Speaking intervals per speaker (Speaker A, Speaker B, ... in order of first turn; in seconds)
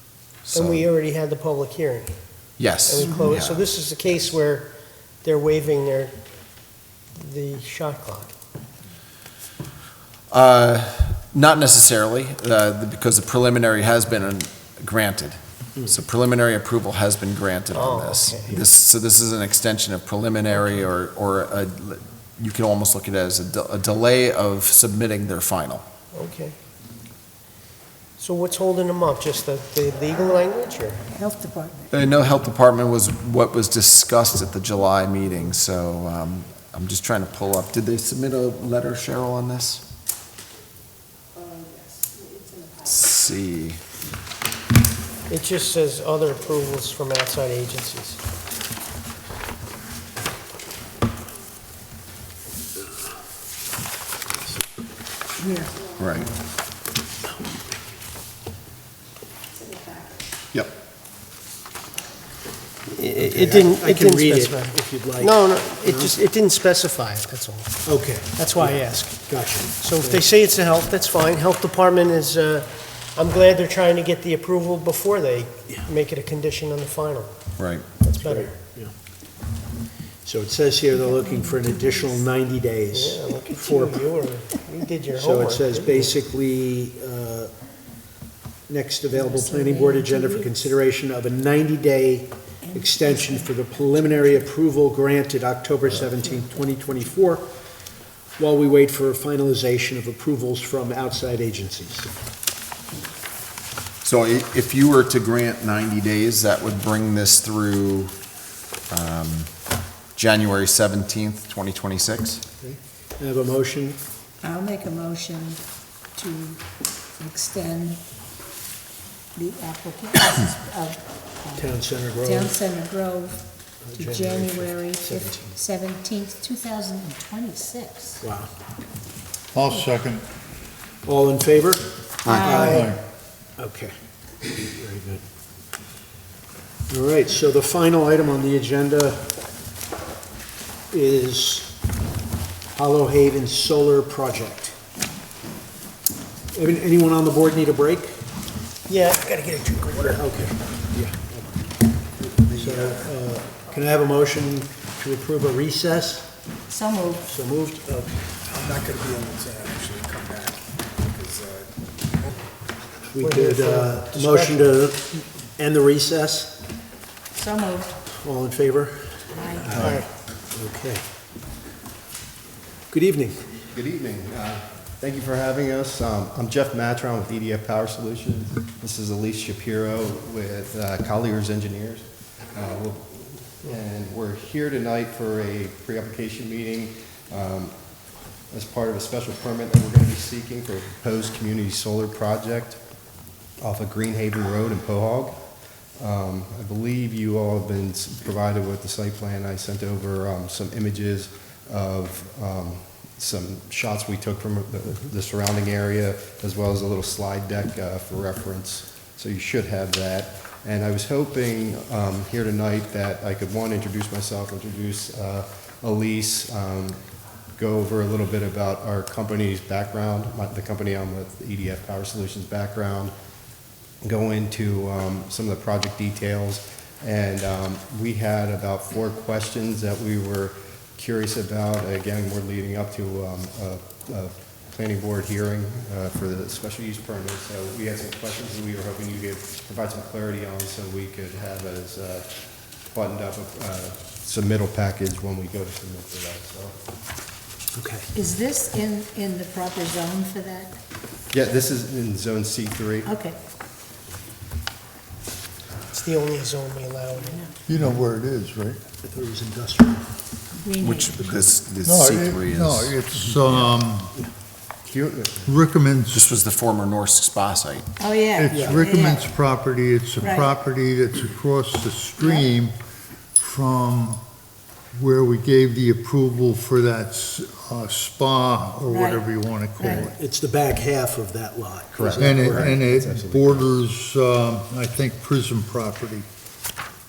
Speaker A: 0.5-0.8, 2.6-3.6, 10.3-25.8, 31.9-39.8, 42.8-43.8, 56.0-56.3, 77.6-77.8, 104.0-108.1, 108.9-109.5, 110.1-112.4, 132.2-132.7, 260.8-262.9, 266.1-267.9
Speaker B: 0.5-2.2, 2.9-8.3, 17.7-18.6, 26.1-26.5, 28.2-31.0, 45.3-48.2, 62.9-77.5, 78.0-78.5, 82.9-86.1, 148.9-150.2, 163.2-164.8, 169.7-170.1, 255.9-257.5
Speaker C: 31.1-31.9, 41.4-42.9, 55.4-55.8, 59.7-60.1, 80.9-82.2, 89.1-90.6, 92.7-94.4, 114.4-118.0, 119.3-128.2, 132.3-132.9, 156.7-157.3, 167.3-167.9, 169.3-169.9, 248.1-250.8, 253.1-253.4, 260.6-261.1, 268.0-269.2, 270.2-270.5, 272.2-272.4, 278.9-280.1
Speaker D: 63.2-66.1, 67.8-70.2, 78.2-78.9, 80.2-84.0, 85.1-87.5, 88.7-97.5, 98.4-102.1, 112.6-114.0, 121.5-122.6, 123.8-125.6, 128.2-128.5, 131.0-132.9, 133.6-133.9, 134.5-135.2, 136.9-139.3, 140.9-141.8, 142.7-144.8, 146.5-148.2, 150.0-151.6, 152.5-156.3, 157.2-158.4, 163.1-166.6, 168.1-171.1, 172.9-173.6, 247.7-248.1, 259.0-260.3, 263.2-264.3, 268.5-268.8, 280.0-282.8
Speaker E: 129.5-130.2, 132.7-133.0, 257.7-258.8, 261.8-264.1, 265.5-266.2, 268.4-272.7, 273.4-274.2, 274.9-280.0, 282.2-286.2
Speaker F: 152.3-153.1, 158.5-160.6, 161.1-161.7
Speaker G: 173.7-187.7, 188.5-192.8, 193.6-195.3, 196.0-217.0, 217.6-223.1, 224.0-242.3, 242.9-246.7, 251.3-253.1, 264.8-265.6, 279.8-280.1, 281.9-283.7